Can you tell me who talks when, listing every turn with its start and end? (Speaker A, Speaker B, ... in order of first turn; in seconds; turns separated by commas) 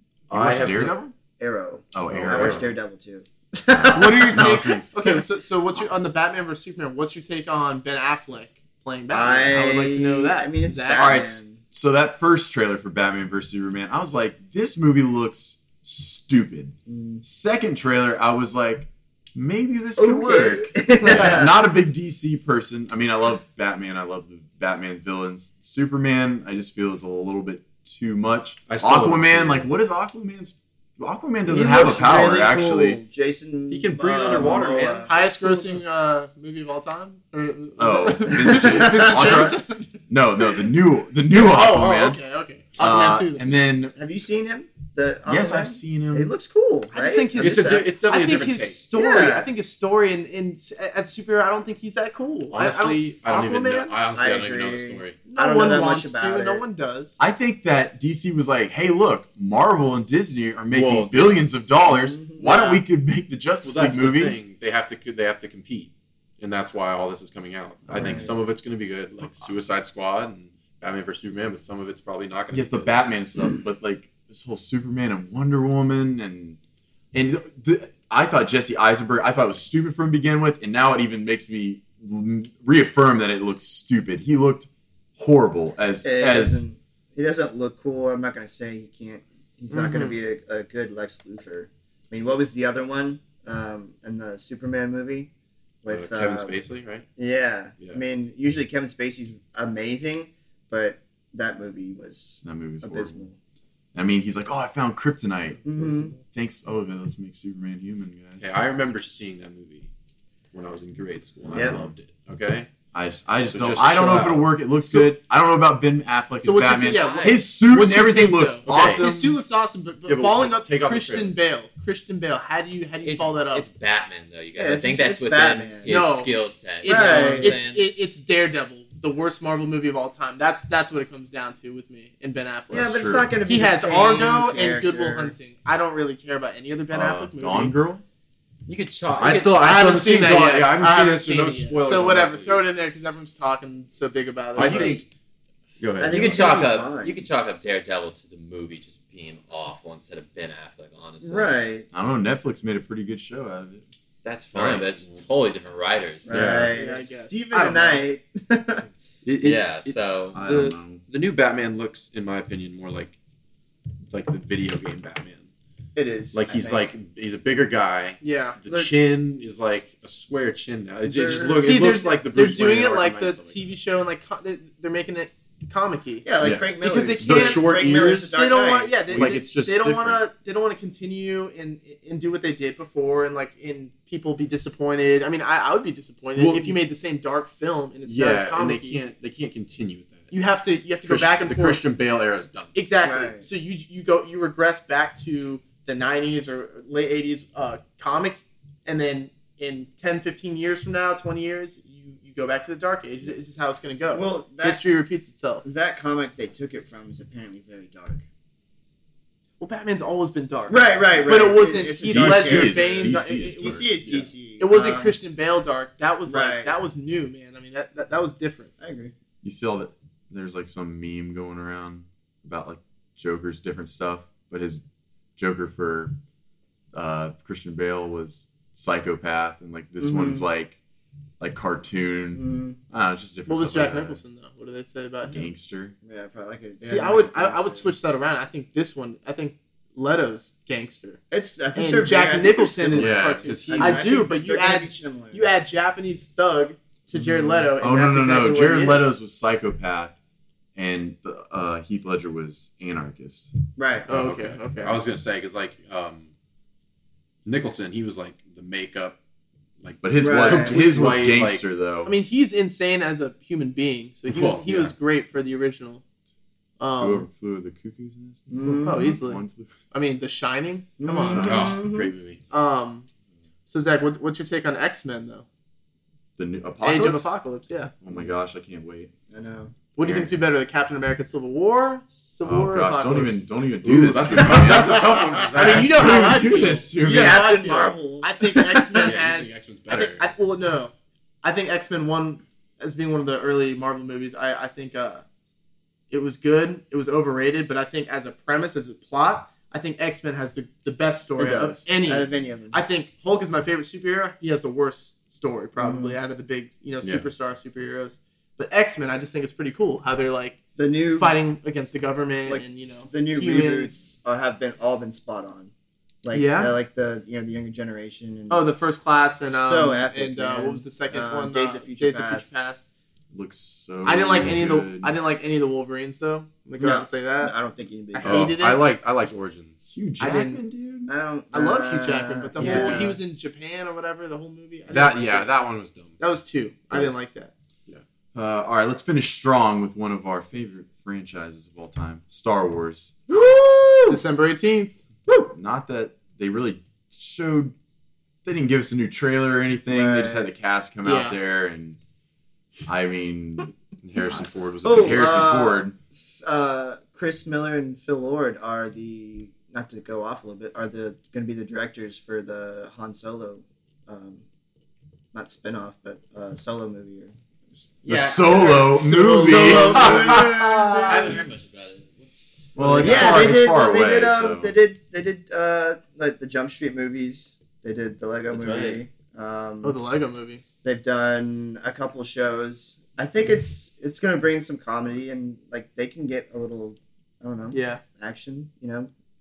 Speaker A: 0.3-0.9, Speaker B: 0.3-1.1, Speaker C: 1.4-4.8, Speaker B: 1.9-2.6, Speaker A: 2.1-2.7, Speaker B: 3.7-5.0, Speaker D: 3.9-11.2, Speaker C: 9.1-11.6, Speaker B: 10.9-33.0, Speaker C: 16.9-17.2, Speaker C: 20.0-21.6, Speaker A: 21.0-21.5, Speaker A: 28.7-29.7, Speaker C: 31.4-35.1, Speaker A: 33.7-35.8, Speaker D: 35.0-40.7, Speaker B: 37.8-42.2, Speaker A: 38.5-39.5, Speaker D: 41.3-43.6, Speaker B: 42.8-44.0, Speaker C: 44.0-47.9, Speaker B: 45.3-46.3, Speaker D: 46.9-54.0, Speaker A: 47.4-48.8, Speaker C: 48.9-49.5, Speaker A: 52.5-55.2, Speaker C: 54.1-56.6, Speaker D: 55.3-57.2, Speaker B: 57.2-64.4, Speaker A: 60.7-61.5, Speaker C: 61.8-62.5, Speaker D: 62.4-62.8, Speaker A: 63.6-73.0, Speaker B: 67.9-68.2, Speaker C: 67.9-68.3, Speaker B: 72.5-76.6, Speaker B: 77.1-86.6, Speaker C: 86.0-95.3, Speaker D: 89.7-90.1, Speaker C: 95.8-96.5, Speaker A: 95.9-97.0, Speaker C: 97.2-103.4, Speaker B: 102.4-103.2, Speaker B: 103.9-108.5, Speaker C: 105.6-106.1, Speaker A: 108.4-109.9, Speaker A: 110.5-112.7, Speaker C: 111.5-111.9, Speaker B: 111.5-111.9, Speaker B: 112.9-119.4, Speaker A: 113.5-115.1, Speaker D: 116.4-123.7, Speaker E: 116.9-117.4, Speaker A: 118.6-119.1, Speaker A: 120.0-121.3, Speaker E: 123.0-127.9, Speaker C: 124.5-126.0, Speaker D: 125.9-137.8, Speaker C: 126.8-127.6, Speaker C: 132.7-135.3, Speaker B: 132.7-133.3, Speaker B: 136.9-138.0, Speaker E: 138.7-139.6, Speaker A: 139.1-142.7, Speaker D: 139.5-145.0, Speaker A: 144.6-145.0, Speaker C: 144.6-145.0, Speaker A: 145.8-146.6, Speaker C: 146.0-147.3, Speaker E: 146.1-151.6, Speaker C: 151.2-151.9, Speaker B: 151.9-153.8, Speaker E: 154.2-156.7, Speaker A: 154.5-155.2, Speaker C: 156.3-158.9, Speaker A: 156.3-156.7, Speaker D: 156.7-158.0, Speaker A: 159.2-163.1, Speaker E: 159.4-160.4, Speaker B: 160.3-161.0, Speaker A: 164.1-165.5, Speaker C: 165.9-166.9, Speaker A: 166.3-173.6, Speaker D: 168.2-168.6, Speaker C: 171.1-171.6, Speaker D: 171.6-189.0, Speaker C: 176.2-179.2, Speaker A: 176.4-178.3, Speaker A: 179.1-180.3, Speaker A: 186.4-186.8, Speaker A: 188.1-190.3, Speaker D: 190.3-191.8, Speaker A: 191.0-192.8, Speaker D: 192.7-205.6, Speaker C: 193.0-193.4, Speaker C: 204.1-204.8, Speaker C: 205.6-208.2, Speaker D: 209.6-218.7, Speaker C: 210.7-215.2, Speaker B: 212.1-213.8, Speaker C: 216.3-216.7, Speaker C: 218.8-219.1, Speaker B: 219.4-224.8, Speaker B: 225.4-226.2, Speaker B: 226.9-230.8, Speaker C: 230.0-230.4, Speaker B: 231.4-234.2, Speaker C: 232.3-232.8, Speaker D: 233.5-235.5, Speaker B: 235.2-235.9, Speaker C: 236.0-237.9, Speaker D: 236.8-241.2, Speaker C: 241.3-245.5, Speaker D: 241.7-249.1, Speaker A: 242.9-244.1, Speaker C: 247.1-247.4, Speaker B: 247.2-250.1, Speaker B: 250.8-253.6, Speaker C: 253.8-254.1, Speaker D: 254.1-255.0, Speaker A: 254.1-256.3, Speaker A: 257.4-259.2, Speaker A: 259.8-261.6, Speaker B: 260.0-262.1, Speaker C: 260.2-260.8, Speaker D: 262.1-266.0, Speaker A: 264.3-264.9, Speaker D: 266.8-267.3, Speaker B: 267.0-269.8, Speaker C: 268.5-269.2, Speaker D: 268.8-271.8, Speaker C: 271.0-272.1, Speaker A: 271.3-272.4, Speaker D: 272.5-273.1, Speaker D: 273.7-275.4, Speaker B: 276.4-277.4, Speaker D: 276.8-277.9, Speaker B: 278.0-279.1, Speaker C: 279.3-279.7, Speaker D: 279.9-283.4, Speaker B: 280.0-280.3, Speaker B: 282.4-287.4, Speaker A: 283.8-286.1, Speaker D: 285.5-295.2, Speaker C: 287.1-289.2, Speaker A: 289.0-290.3, Speaker D: 296.1-310.6, Speaker C: 301.4-302.8, Speaker C: 305.8-306.2, Speaker A: 307.0-307.3, Speaker C: 310.8-311.4, Speaker D: 311.1-313.9, Speaker C: 312.5-315.7, Speaker C: 316.2-318.7, Speaker D: 316.3-316.7, Speaker D: 318.5-322.9, Speaker C: 319.4-322.6, Speaker B: 323.3-325.2, Speaker D: 324.1-327.6, Speaker C: 326.8-328.6, Speaker D: 328.1-328.9, Speaker A: 328.2-329.8, Speaker B: 329.9-331.1, Speaker D: 330.2-330.6, Speaker C: 331.1-333.2, Speaker D: 331.5-335.5, Speaker A: 332.6-333.0, Speaker B: 332.6-333.1, Speaker A: 334.9-336.2, Speaker D: 336.2-337.5, Speaker B: 338.3-343.2, Speaker C: 343.3-344.2, Speaker D: 344.1-344.9, Speaker C: 345.3-345.5, Speaker B: 345.5-347.7, Speaker B: 348.4-352.0, Speaker C: 349.9-350.5, Speaker D: 351.0-351.4, Speaker B: 352.9-353.7, Speaker A: 354.0-355.5, Speaker B: 354.7-355.9, Speaker C: 354.8-364.4, Speaker C: 365.3-367.8, Speaker D: 368.0-371.4, Speaker B: 368.1-370.5, Speaker C: 369.3-371.5, Speaker E: 371.0-372.7, Speaker B: 372.7-374.7, Speaker D: 372.8-373.6, Speaker C: 373.0-379.9, Speaker E: 378.5-379.0, Speaker D: 379.8-380.6, Speaker C: 380.8-389.1, Speaker D: 387.7-388.0